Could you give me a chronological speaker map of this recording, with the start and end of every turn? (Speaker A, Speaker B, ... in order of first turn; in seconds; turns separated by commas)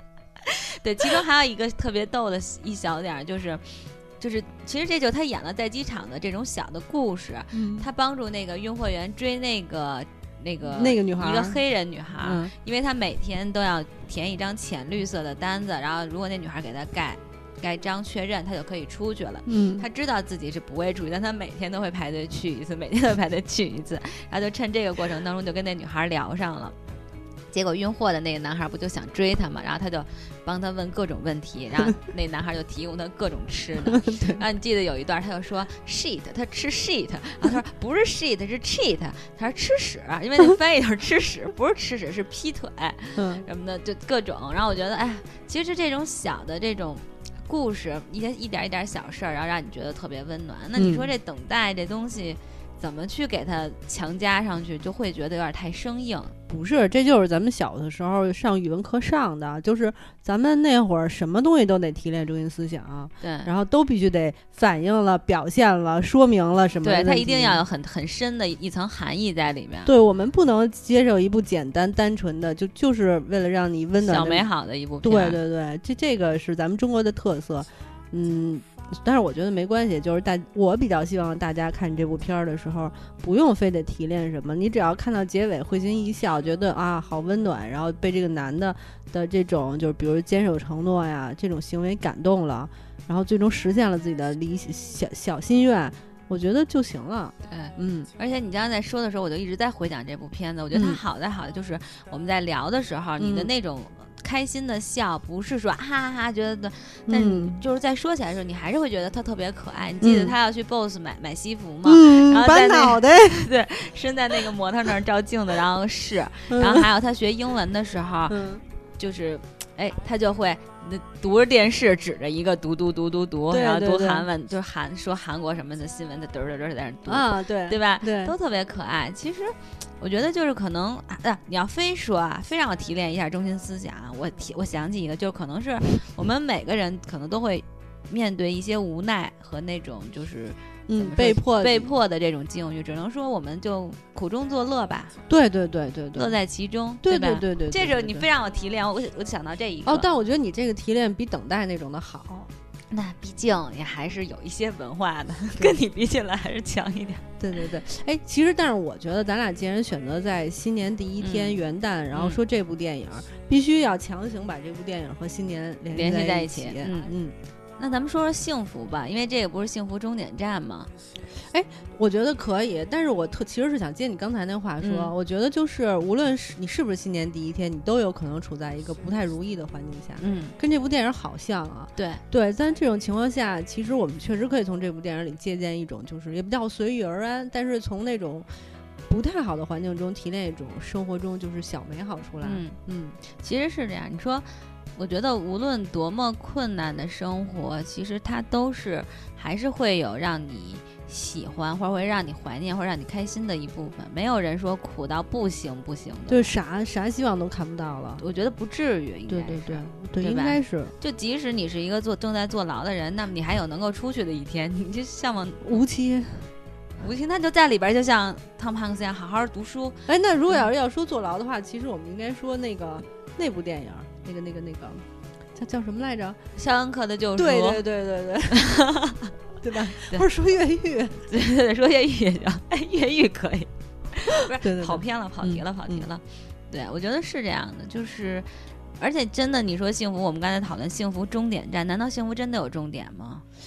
Speaker A: 0.4-26.8, Speaker B: 7.5-7.9, Speaker B: 10.7-11.6, Speaker B: 12.2-12.5, Speaker B: 19.5-19.9, Speaker A: 27.5-56.4, Speaker B: 33.9-34.4, Speaker B: 43.2-43.5, Speaker B: 50.8-51.1, Speaker B: 56.5-67.6, Speaker A: 63.2-63.5, Speaker A: 66.8-69.9, Speaker B: 69.8-74.5, Speaker A: 74.0-75.4, Speaker B: 75.0-98.1, Speaker A: 97.5-118.4, Speaker B: 100.7-101.0, Speaker B: 103.2-103.5, Speaker B: 107.1-107.6, Speaker B: 110.0-110.3, Speaker B: 111.8-113.5, Speaker B: 116.5-116.9, Speaker B: 118.3-118.6, Speaker A: 119.0-145.2, Speaker B: 123.5-124.3, Speaker B: 127.1-128.3, Speaker B: 140.9-141.9, Speaker B: 145.3-146.3, Speaker A: 146.2-150.1, Speaker B: 147.0-148.3, Speaker B: 149.8-152.5, Speaker A: 152.9-157.3, Speaker B: 157.4-167.4, Speaker A: 161.2-161.6, Speaker A: 162.1-162.4, Speaker A: 165.9-167.1, Speaker A: 167.8-170.9, Speaker B: 171.4-188.5, Speaker A: 174.8-175.1, Speaker A: 180.2-180.6, Speaker A: 182.0-182.2, Speaker B: 189.1-193.2, Speaker A: 192.4-206.5, Speaker B: 206.3-208.2, Speaker A: 208.2-215.8, Speaker B: 209.3-210.9, Speaker B: 215.6-216.5, Speaker A: 217.0-220.0, Speaker B: 220.1-226.4, Speaker A: 226.6-227.8, Speaker B: 227.4-228.8, Speaker A: 228.5-229.3, Speaker B: 229.6-231.2, Speaker A: 231.3-238.5, Speaker B: 234.5-236.1, Speaker A: 239.0-243.4